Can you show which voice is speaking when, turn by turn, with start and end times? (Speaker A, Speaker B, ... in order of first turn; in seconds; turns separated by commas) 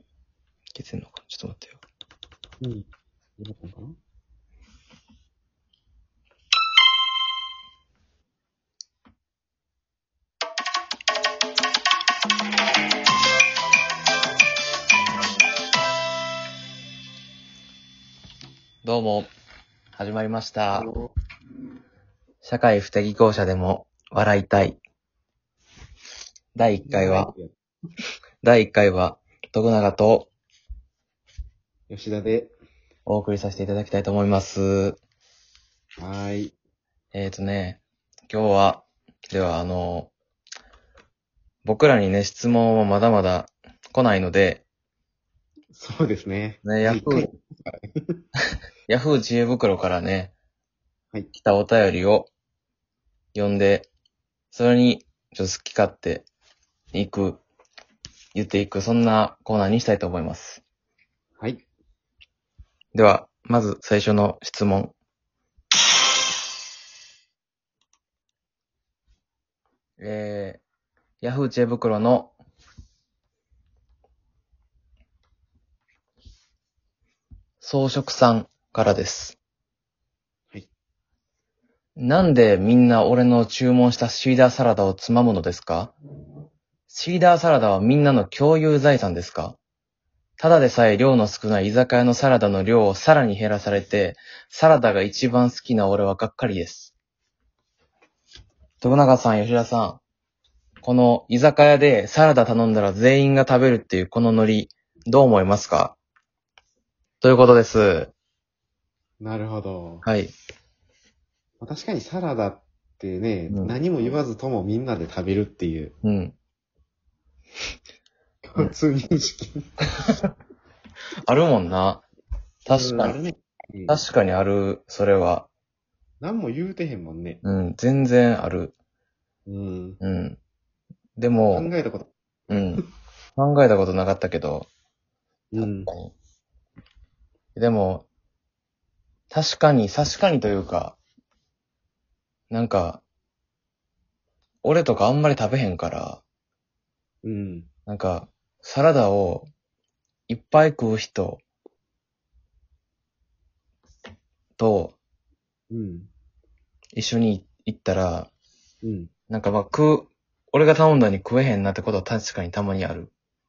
Speaker A: 0.7-1.8, Speaker B: 3.4-4.0, Speaker A: 18.8-19.3, Speaker A: 19.9-20.9, Speaker B: 20.7-21.1, Speaker A: 22.4-24.8, Speaker A: 26.6-27.3, Speaker B: 26.8-27.6, Speaker A: 28.4-30.3, Speaker B: 31.9-32.5, Speaker A: 33.1-35.0, Speaker B: 36.0-36.5, Speaker A: 37.1-40.1, Speaker A: 41.6-44.6, Speaker B: 45.7-48.2, Speaker A: 46.6-47.3, Speaker A: 48.9-50.3, Speaker A: 51.3-52.3, Speaker A: 53.4-53.9, Speaker A: 54.5-56.3, Speaker A: 56.9-57.4, Speaker A: 58.3-60.6, Speaker B: 61.4-61.6, Speaker A: 62.9-65.0, Speaker A: 70.0-70.6, Speaker A: 71.2-72.3, Speaker A: 77.6-79.4, Speaker A: 82.0-85.9, Speaker A: 86.9-89.6, Speaker A: 90.4-96.9, Speaker A: 98.8-100.0, Speaker A: 100.8-106.0, Speaker A: 107.2-108.1, Speaker B: 109.2-110.0, Speaker A: 110.0-110.3, Speaker B: 111.6-115.9, Speaker A: 113.5-113.8, Speaker A: 116.0-116.4, Speaker B: 118.4-119.7, Speaker A: 121.2-122.0, Speaker A: 122.7-123.2, Speaker B: 122.7-124.0, Speaker A: 123.9-125.5, Speaker B: 126.2-127.4, Speaker A: 127.4-128.7, Speaker B: 129.5-130.0, Speaker A: 130.0-130.4, Speaker A: 131.2-131.7, Speaker B: 131.5-132.1, Speaker A: 132.5-132.8, Speaker A: 133.4-134.7, Speaker B: 135.5-135.9, Speaker A: 135.6-136.1, Speaker A: 137.6-138.1, Speaker A: 139.3-141.0, Speaker A: 142.5-143.0, Speaker A: 144.6-146.2, Speaker B: 147.2-147.7, Speaker A: 147.9-149.5, Speaker A: 150.3-151.4, Speaker A: 154.6-155.0, Speaker B: 155.7-156.1, Speaker A: 156.9-158.3, Speaker B: 158.8-159.1, Speaker A: 159.3-163.1